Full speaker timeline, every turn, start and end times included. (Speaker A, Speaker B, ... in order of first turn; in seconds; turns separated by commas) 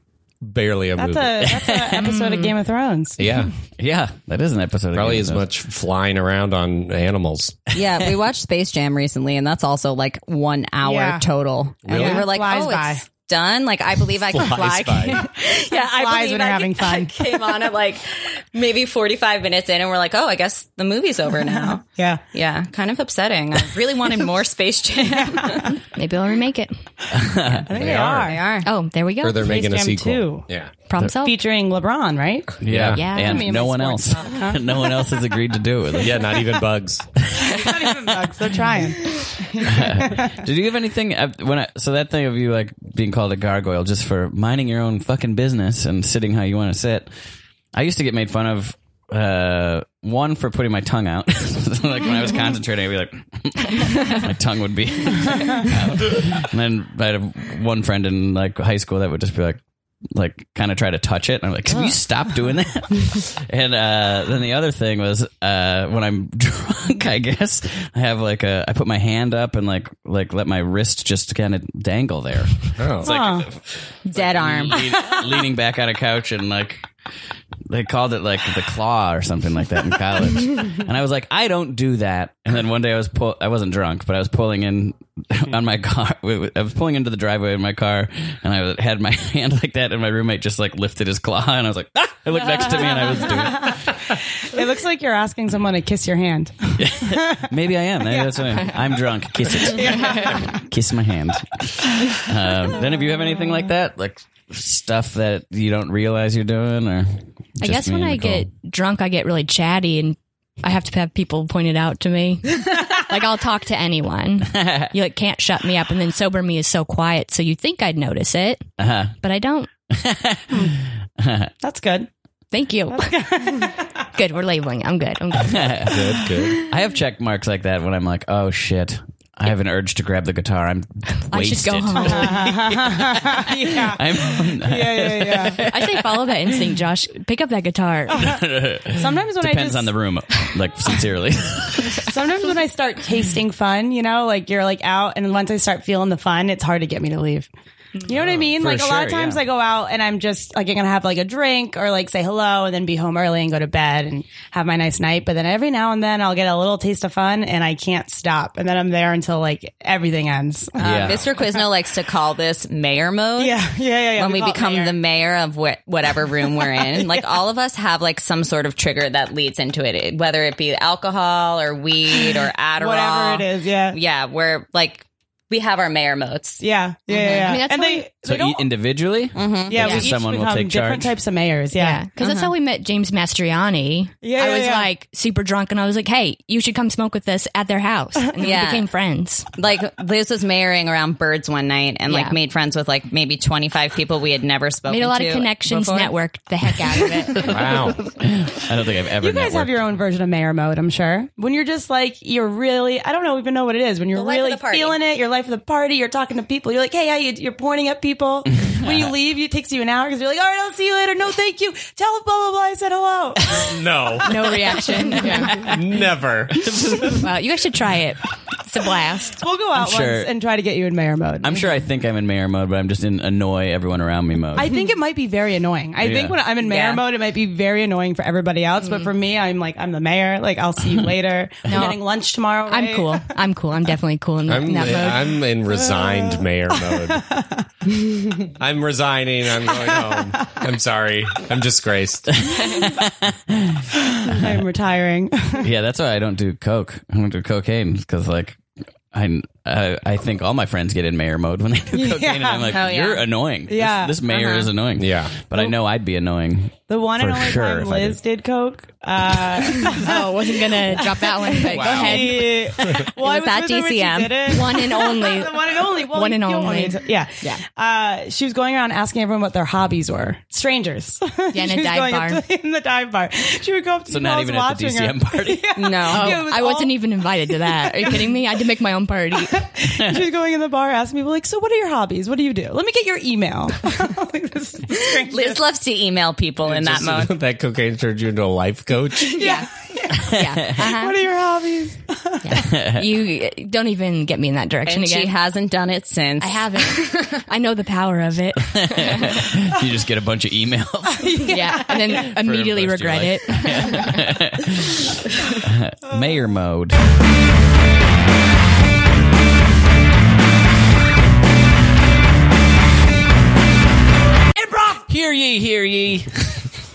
Speaker A: 0.4-1.4, Speaker B: 1.0-3.4, Speaker C: 1.4-2.1, Speaker D: 1.9-2.6, Speaker A: 3.2-3.5, Speaker C: 3.8-5.4, Speaker A: 4.9-7.6, Speaker E: 7.7-25.8, Speaker B: 10.8-11.2, Speaker A: 11.9-12.3, Speaker B: 11.9-13.0, Speaker A: 14.2-15.2, Speaker B: 15.1-17.7, Speaker B: 21.6-22.2, Speaker B: 25.1-25.8, Speaker D: 25.8-26.7, Speaker C: 27.1-27.7, Speaker B: 27.6-28.6, Speaker A: 27.7-28.4, Speaker E: 27.9-28.7, Speaker D: 28.6-29.5, Speaker A: 29.2-30.7, Speaker B: 29.4-30.4, Speaker D: 30.9-31.4, Speaker B: 31.2-32.6, Speaker C: 32.6-36.3, Speaker A: 32.7-33.0, Speaker D: 32.9-33.5, Speaker B: 33.1-35.1, Speaker A: 36.0-37.0, Speaker B: 37.4-40.3, Speaker C: 39.6-47.1, Speaker C: 47.7-59.6, Speaker C: 60.1-76.9, Speaker A: 72.8-73.1, Speaker B: 73.0-73.5, Speaker E: 74.1-75.1, Speaker C: 77.7-93.9, Speaker B: 92.7-97.5, Speaker C: 96.8-108.5, Speaker D: 98.2-98.7, Speaker B: 99.6-100.6, Speaker D: 100.0-100.4, Speaker D: 107.6-118.6, Speaker C: 114.5-114.9, Speaker C: 118.8-119.2, Speaker D: 119.2-119.7, Speaker C: 119.9-121.5, Speaker B: 121.6-122.1, Speaker D: 122.5-126.2, Speaker B: 122.9-123.8, Speaker C: 125.4-136.6, Speaker A: 125.9-126.6, Speaker D: 131.3-132.6, Speaker B: 132.0-135.6, Speaker D: 135.6-138.4, Speaker C: 138.1-142.1, Speaker B: 138.2-139.9, Speaker B: 142.0-147.5, Speaker B: 148.1-160.8, Speaker A: 148.1-148.5, Speaker C: 148.1-149.4, Speaker E: 160.8-163.6, Speaker C: 160.8-161.2, Speaker B: 163.4-165.0, Speaker E: 164.1-176.6, Speaker B: 166.8-167.1, Speaker B: 172.8-174.0, Speaker B: 176.6-178.7, Speaker D: 177.1-178.1, Speaker E: 177.1-177.5, Speaker C: 178.2-181.1, Speaker E: 179.4-180.0, Speaker B: 179.7-182.4, Speaker D: 179.8-180.0, Speaker D: 181.7-189.5, Speaker B: 184.2-184.9, Speaker E: 188.4-188.9, Speaker E: 189.5-196.1, Speaker D: 192.1-192.4, Speaker D: 194.9-197.6, Speaker A: 197.4-198.0, Speaker C: 197.7-199.8, Speaker B: 199.2-213.8, Speaker E: 204.1-205.0, Speaker C: 208.7-209.0, Speaker A: 213.5-214.8, Speaker D: 214.2-215.8, Speaker B: 214.4-215.6, Speaker A: 215.6-216.6, Speaker C: 216.6-217.2, Speaker D: 217.0-219.4, Speaker B: 219.3-221.7, Speaker C: 219.8-220.3, Speaker C: 221.4-224.7, Speaker B: 224.5-233.3, Speaker C: 226.0-226.4, Speaker E: 226.6-227.0, Speaker D: 231.7-232.0, Speaker D: 232.7-235.4, Speaker A: 234.5-237.2, Speaker B: 235.7-238.5, Speaker A: 238.5-242.6, Speaker B: 239.9-240.6, Speaker C: 242.3-244.4, Speaker B: 244.2-245.7, Speaker C: 245.6-248.6, Speaker C: 249.1-258.2, Speaker B: 251.9-252.7, Speaker E: 252.7-253.2, Speaker B: 253.7-254.2, Speaker E: 254.3-254.7, Speaker A: 255.0-255.3, Speaker B: 256.9-278.4, Speaker D: 259.8-262.7, Speaker A: 261.7-262.3, Speaker E: 263.0-264.6, Speaker D: 264.5-267.6, Speaker D: 271.5-272.4, Speaker C: 274.1-275.6, Speaker E: 275.8-276.4, Speaker D: 276.1-279.7, Speaker B: 279.5-285.6, Speaker E: 285.3-287.3, Speaker A: 286.6-289.5, Speaker B: 289.3-292.6, Speaker C: 290.2-290.8, Speaker D: 290.2-291.3, Speaker D: 292.4-295.3, Speaker C: 292.5-293.1, Speaker E: 294.9-297.4, Speaker D: 296.4-299.5, Speaker C: 298.6-301.5, Speaker B: 301.2-302.2, Speaker D: 301.4-304.3, Speaker C: 302.1-305.1, Speaker C: 305.6-307.0, Speaker C: 314.9-316.7